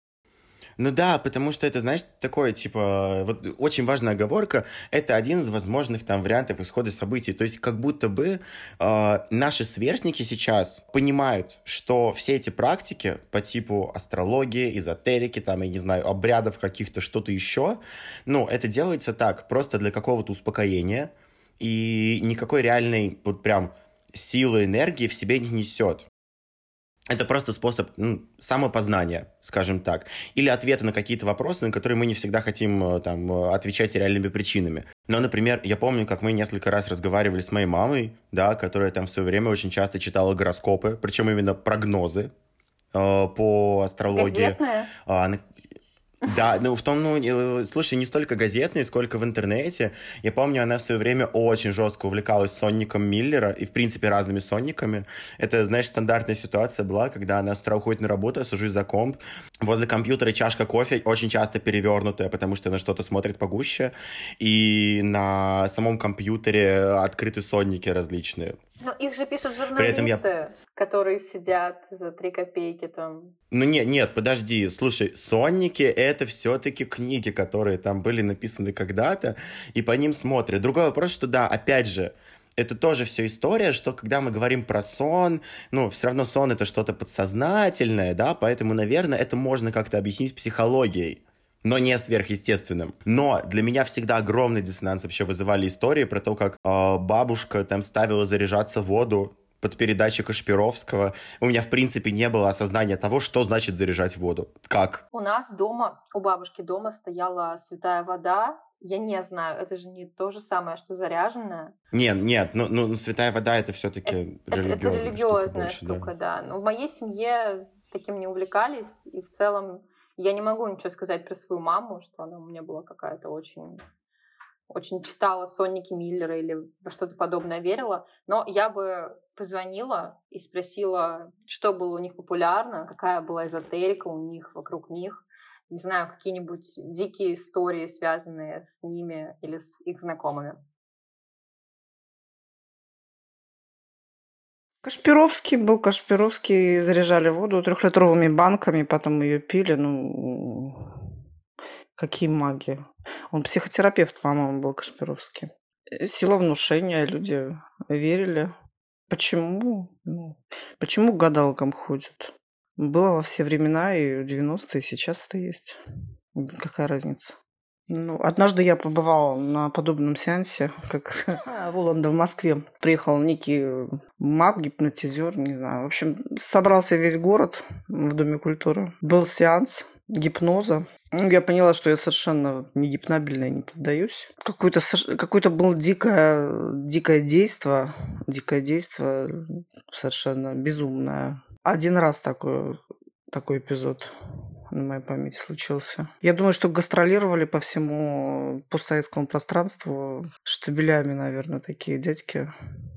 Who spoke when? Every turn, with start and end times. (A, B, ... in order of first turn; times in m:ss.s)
0:00.8-0:26.0 A
0:27.1-0:42.3 A
0:42.9-0:45.4 A
0:44.1-0:44.9 B
0:46.2-1:08.6 A
1:08.8-1:13.3 B
1:09.7-1:10.2 A
1:13.5-1:45.0 A
1:45.1-1:51.7 B
1:51.9-1:56.1 A
1:54.0-2:03.8 B
2:04.7-2:20.6 B
2:24.8-2:31.0 C
2:32.0-2:38.5 C
2:39.1-2:45.8 C
2:46.3-2:47.4 C
2:47.9-3:12.8 C
3:13.3-3:14.1 C
3:14.7-3:22.5 C